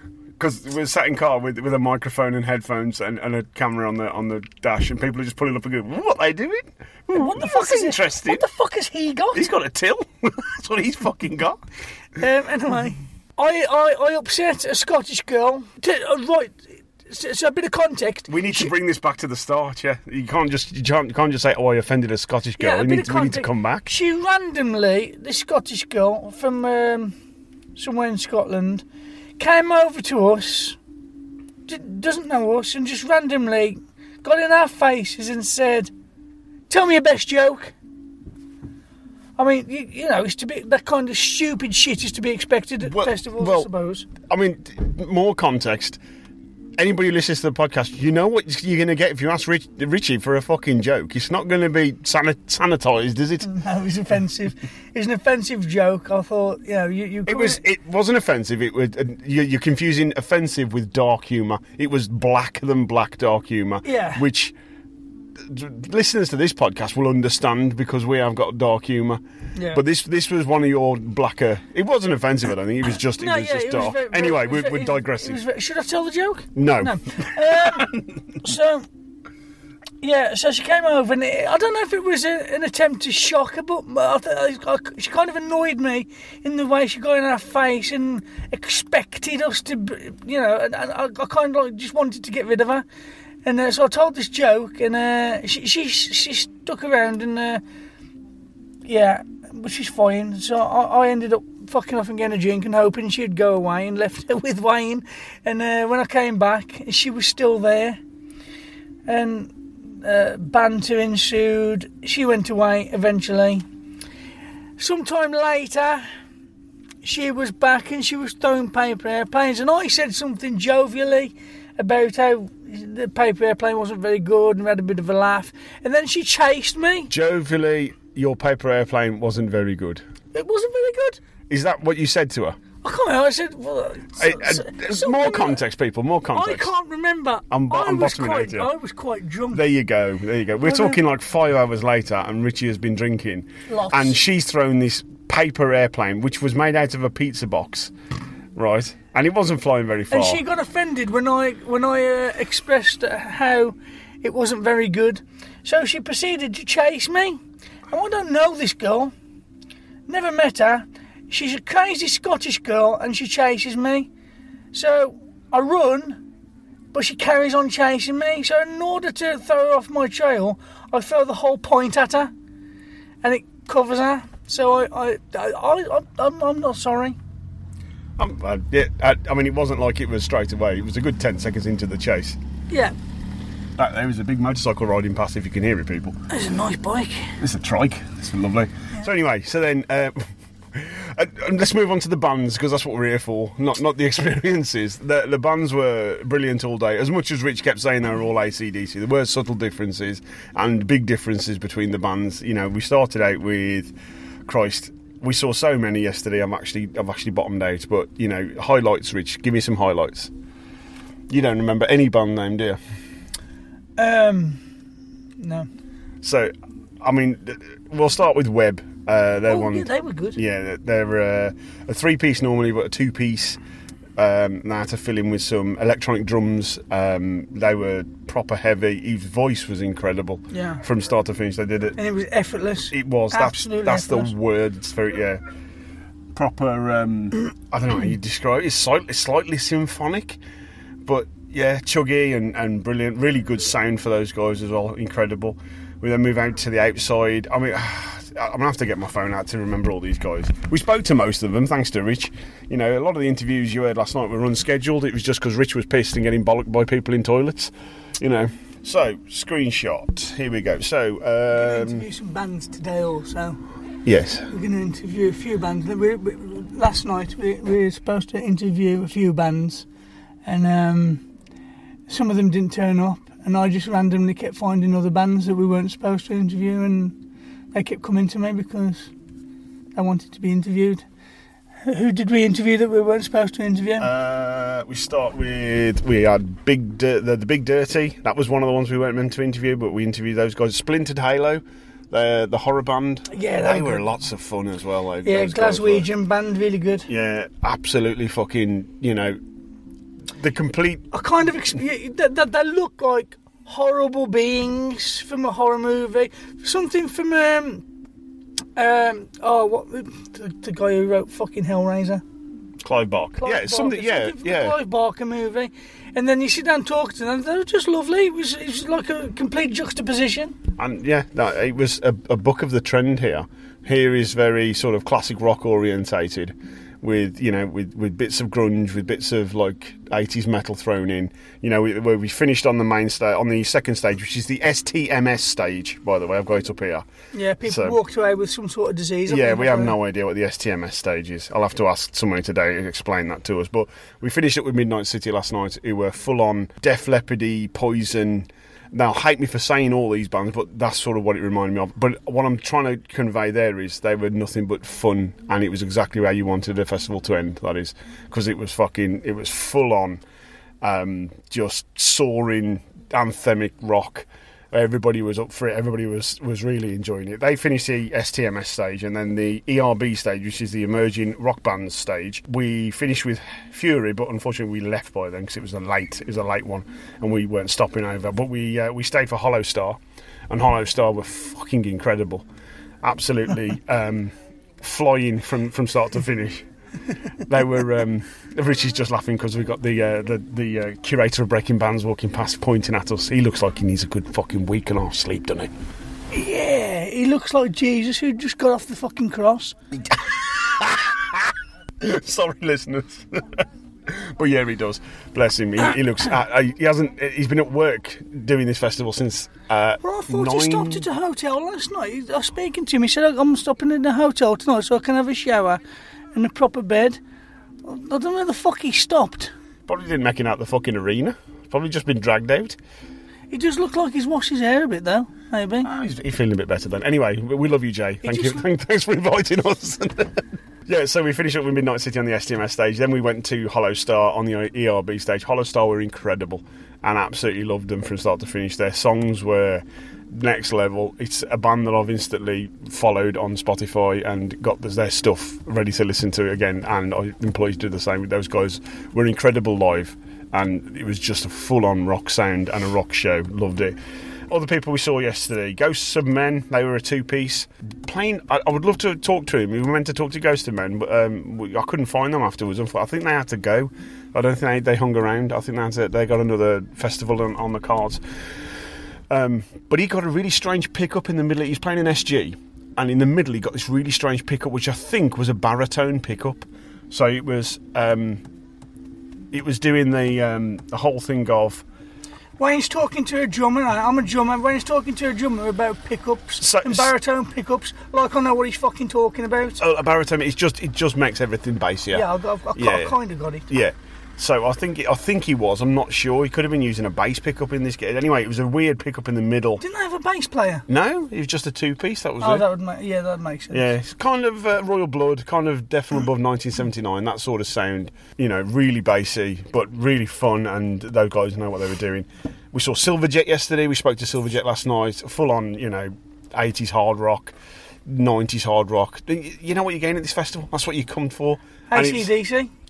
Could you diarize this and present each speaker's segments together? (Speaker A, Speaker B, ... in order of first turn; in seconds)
Speaker A: 0.4-8.4, 9.3-11.6, 18.3-23.9, 42.8-43.7, 44.2-46.0, 46.8-53.5, 57.3-64.5, 65.4-69.2, 69.7-75.4, 76.5-77.0, 127.1-130.0, 131.5-132.6, 134.2-136.7, 137.5-138.7, 139.5-147.9, 148.6-150.4, 178.2-182.4, 183.8-186.2, 187.4-203.9, 204.5-210.3, 211.3-212.8, 216.2-223.6, 224.2-232.0, 232.9-235.4, 236.3-240.4, 241.1-262.1, 264.1-264.5, 284.0-296.1, 297.1-299.4, 300.4-301.1, 312.8-314.8, 320.8-337.1, 337.6-338.0, 339.3-360.2, 360.8-382.5, 383.0-386.6, 387.5-395.7, 400.1-401.5, 402.0-411.1, 419.9-422.8, 425.8-454.0, 454.5-468.2, 469.3-478.4, 479.5-481.8, 486.6-487.1, 489.8-493.2, 493.7-499.8, 500.9-502.7, 503.7-517.5, 518.1-522.3
Speaker B: 7.1-9.5, 12.2-18.7, 22.6-27.1, 27.8-28.9, 29.4-30.8, 31.7-35.9, 36.7-37.7, 39.4-44.1, 53.4-57.6, 63.8-64.2, 69.6-69.8, 73.2-78.9, 80.0-92.8, 93.5-97.6, 98.8-108.0, 109.1-113.7, 114.8-116.0, 117.0-127.1, 130.3-131.2, 132.8-135.6, 136.3-139.7, 140.6-141.0, 143.7-144.2, 150.1-159.1, 160.1-164.1, 164.7-166.2, 166.9-172.3, 173.2-177.2, 186.3-187.3, 214.0-214.6, 215.4-215.7, 219.5-220.4, 230.5-230.8, 232.0-234.3, 261.5-263.6, 264.5-269.9, 270.5-271.2, 272.1-277.2, 277.7-279.1, 279.9-281.0, 281.9-284.1, 293.3-294.0, 295.2-297.1, 301.1-307.8, 308.8-312.2, 313.4-320.6, 337.3-340.0, 396.3-399.8, 410.0-415.8, 416.3-417.2, 417.9-419.5, 423.5-425.9, 428.2-428.6, 482.6-489.8, 492.1-493.7, 499.8-500.8, 502.4-503.9, 521.9-522.7